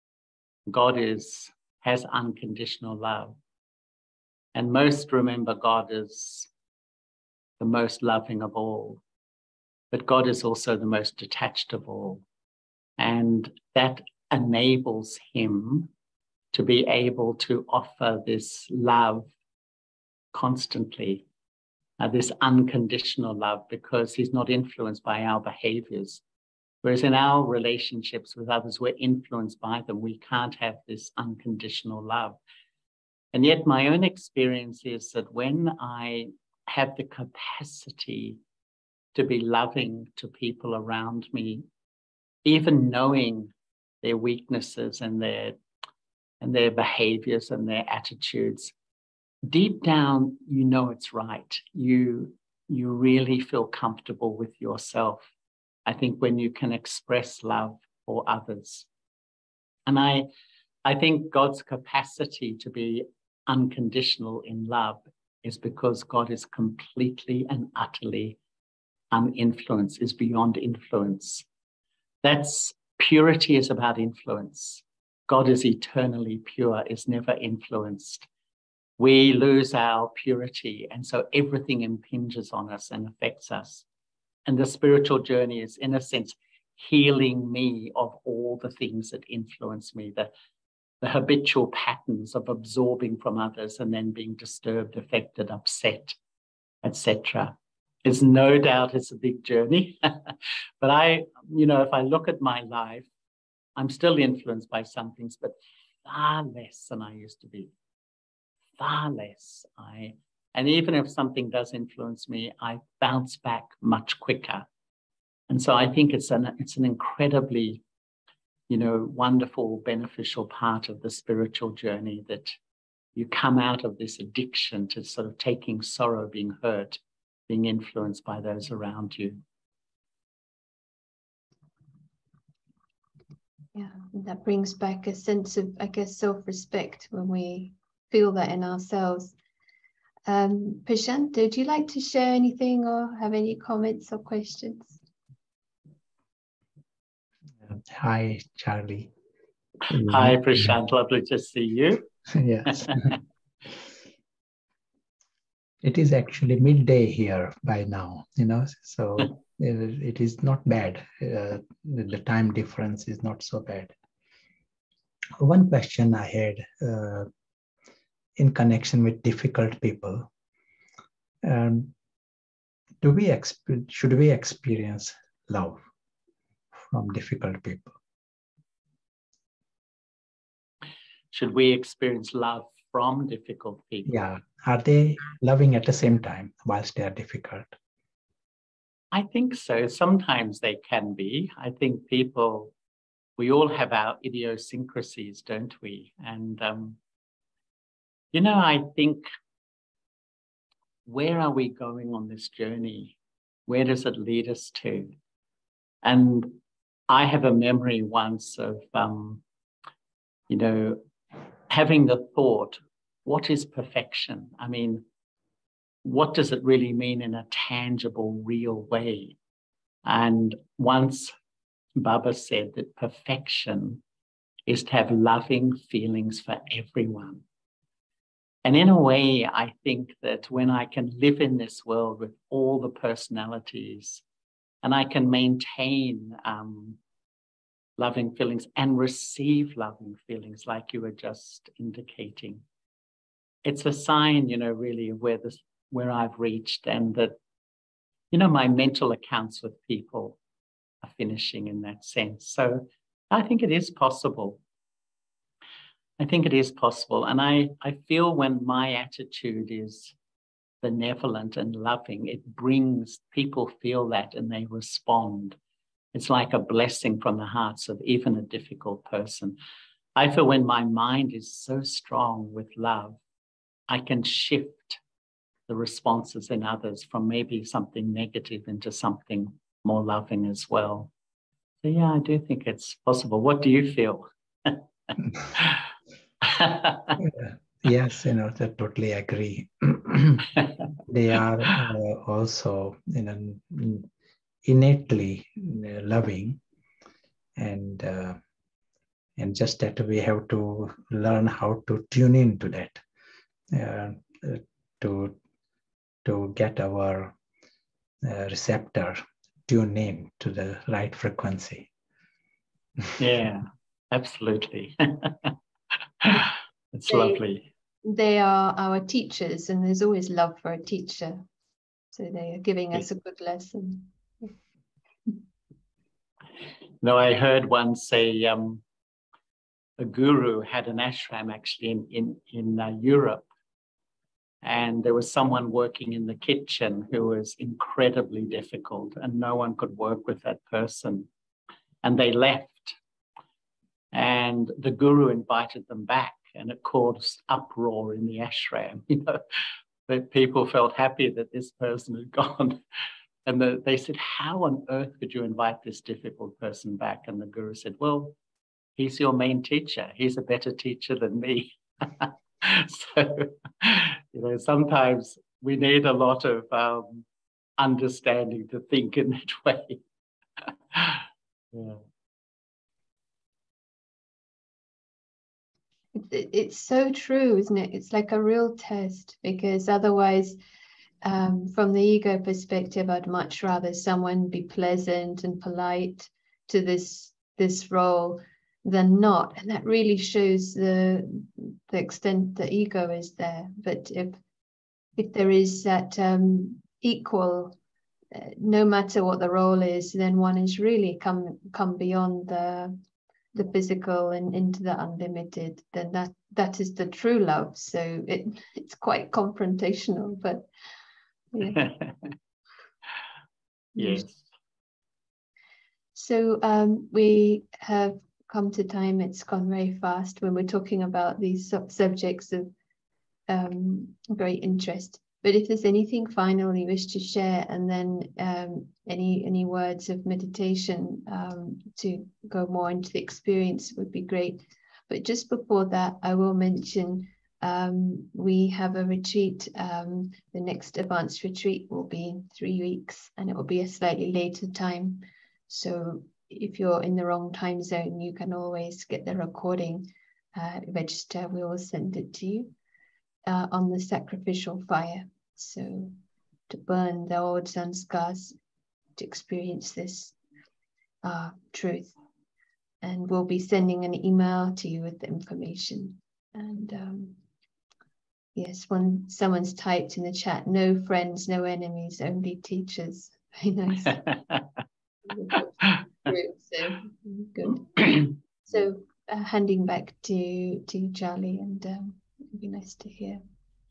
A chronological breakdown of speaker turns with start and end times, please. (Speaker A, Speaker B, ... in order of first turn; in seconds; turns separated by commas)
Speaker A: 0.7-3.4, Speaker A: 4.5-6.5, Speaker A: 7.6-9.0, Speaker A: 9.9-12.2, Speaker A: 13.0-15.9, Speaker A: 16.5-19.3, Speaker A: 20.3-21.3, Speaker A: 22.0-26.2, Speaker A: 26.8-32.4, Speaker A: 33.3-38.4, Speaker A: 39.1-41.6, Speaker A: 42.4-45.6, Speaker A: 46.4-48.7, Speaker A: 49.5-55.3, Speaker A: 55.9-58.9, Speaker A: 59.9-60.3, Speaker A: 60.9-68.4, Speaker A: 69.1-71.5, Speaker A: 72.2-78.3, Speaker A: 79.0-83.8, Speaker A: 84.5-90.3, Speaker A: 91.0-96.2, Speaker A: 96.8-103.1, Speaker A: 103.8-107.7, Speaker A: 108.8-114.7, Speaker A: 115.5-117.8, Speaker A: 118.7-122.6, Speaker A: 123.2-129.4, Speaker B: 133.8-139.3, Speaker B: 140.3-145.0, Speaker C: 147.7-149.1, Speaker C: 149.9-150.7, Speaker A: 149.9-152.1, Speaker C: 152.3-153.1, Speaker A: 152.7-153.2, Speaker C: 155.8-163.9, Speaker C: 165.4-167.3, Speaker C: 168.4-170.3, Speaker C: 171.4-171.9, Speaker C: 173.0-175.8, Speaker C: 176.8-177.9, Speaker A: 181.3-184.1, Speaker C: 184.1-187.7, Speaker A: 189.1-192.7, Speaker A: 193.4-197.0, Speaker A: 198.3-199.2, Speaker A: 201.1-205.2, Speaker A: 206.0-209.4, Speaker A: 210.5-211.1, Speaker A: 211.7-215.0, Speaker A: 216.0-219.4, Speaker A: 220.1-221.3, Speaker A: 221.9-224.0, Speaker A: 224.7-227.4, Speaker A: 228.7-234.2, Speaker A: 234.8-237.0, Speaker A: 238.0-242.6, Speaker A: 243.7-247.4, Speaker A: 248.3-250.4, Speaker A: 251.0-254.6, Speaker A: 256.2-260.2, Speaker A: 260.8-265.6, Speaker A: 266.1-269.6, Speaker A: 270.2-273.2, Speaker A: 273.9-275.0, Speaker A: 275.7-281.1, Speaker A: 281.8-285.8, Speaker A: 286.4-287.2, Speaker C: 287.2-290.5, Speaker C: 291.1-294.1, Speaker C: 294.6-296.6, Speaker C: 297.6-298.4, Speaker C: 299.4-303.0, Speaker C: 303.7-305.4, Speaker C: 306.2-307.4, Speaker C: 308.2-311.9, Speaker A: 313.2-315.5, Speaker A: 316.2-317.7, Speaker B: 317.1-317.4, Speaker B: 318.1-321.4, Speaker B: 322.1-324.5, Speaker A: 327.0-328.8, Speaker A: 330.0-333.5, Speaker A: 334.6-341.3, Speaker A: 342.0-343.0, Speaker A: 344.1-349.4, Speaker A: 350.1-352.8, Speaker A: 353.4-358.4, Speaker A: 359.0-367.3, Speaker A: 367.8-370.0, Speaker A: 370.7-372.0, Speaker B: 376.1-380.6, Speaker B: 381.2-394.4, Speaker B: 395.2-397.8, Speaker B: 398.3-403.0, Speaker B: 403.6-410.7, Speaker B: 411.5-411.8, Speaker A: 411.7-412.3, Speaker B: 413.9-414.3, Speaker A: 414.0-414.5, Speaker B: 416.1-422.7, Speaker B: 423.5-452.7, Speaker B: 453.4-456.2, Speaker B: 456.7-458.6, Speaker B: 459.2-460.4, Speaker B: 461.2-462.1, Speaker B: 463.0-467.4, Speaker B: 468.6-474.4, Speaker A: 474.1-474.6, Speaker B: 475.3-483.4